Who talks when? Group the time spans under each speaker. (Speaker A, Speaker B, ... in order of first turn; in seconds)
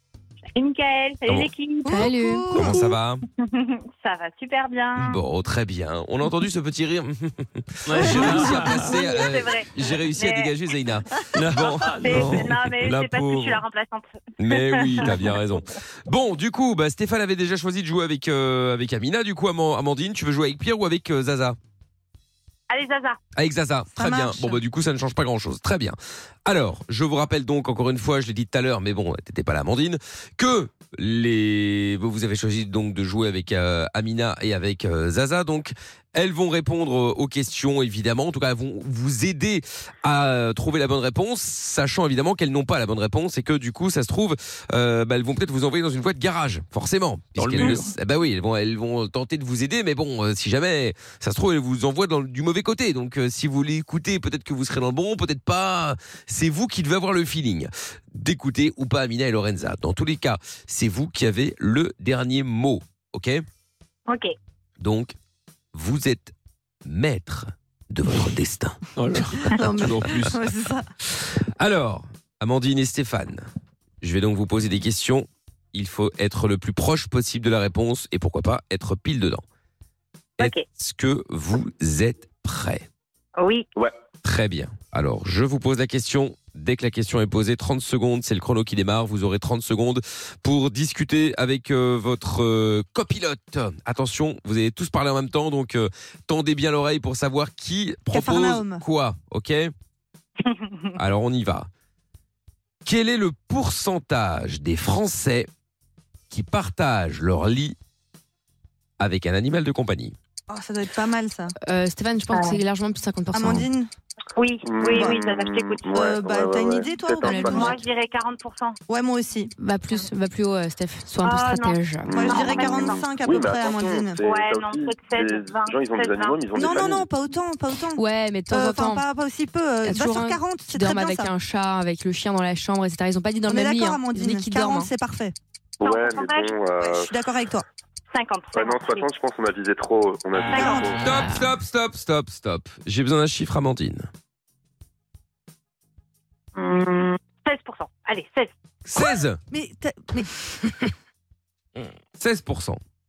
Speaker A: 0.6-2.9, 3.4-5.2, 8.0-10.5, 12.0-15.2, 22.7-23.2, 64.1-64.3, 83.4-83.7, 100.5-100.8, 112.3-112.6, 114.3-116.0, 117.2-118.8, 121.2-126.8, 135.8-136.5, 138.1-139.1, 140.4-141.0, 146.6-148.5
Speaker B: 1.8-2.8, 23.9-24.6, 69.4-70.8, 98.1-98.8, 110.5-111.5, 113.3-113.9, 114.9-115.2, 115.9-117.8, 118.9-119.5, 122.1-124.2, 126.5-131.3, 133.4-135.3, 136.8-137.6, 140.5-140.9, 149.0-150.5
Speaker C: 1.9-2.6, 111.6-113.7, 117.2-117.8, 119.6-122.2, 128.0-129.1, 129.8-134.9, 140.9-141.5
Speaker D: 2.5-3.2, 5.0-12.5, 14.4-21.6, 23.4-63.4, 64.8-65.2, 65.7-66.3, 66.8-68.8, 69.4-70.4, 71.2-73.4, 74.0-79.4, 80.4-82.8, 84.2-99.7, 100.9-101.7, 102.8-105.5, 106.3-107.8, 109.0-110.1, 141.0-144.1, 148.8-149.4, 152.2-152.8
Speaker E: 7.9-9.0, 11.3-13.6, 47.4-47.9, 69.0-70.4
Speaker F: 114.6-117.8, 122.1-127.1, 135.8-137.1, 138.5-141.0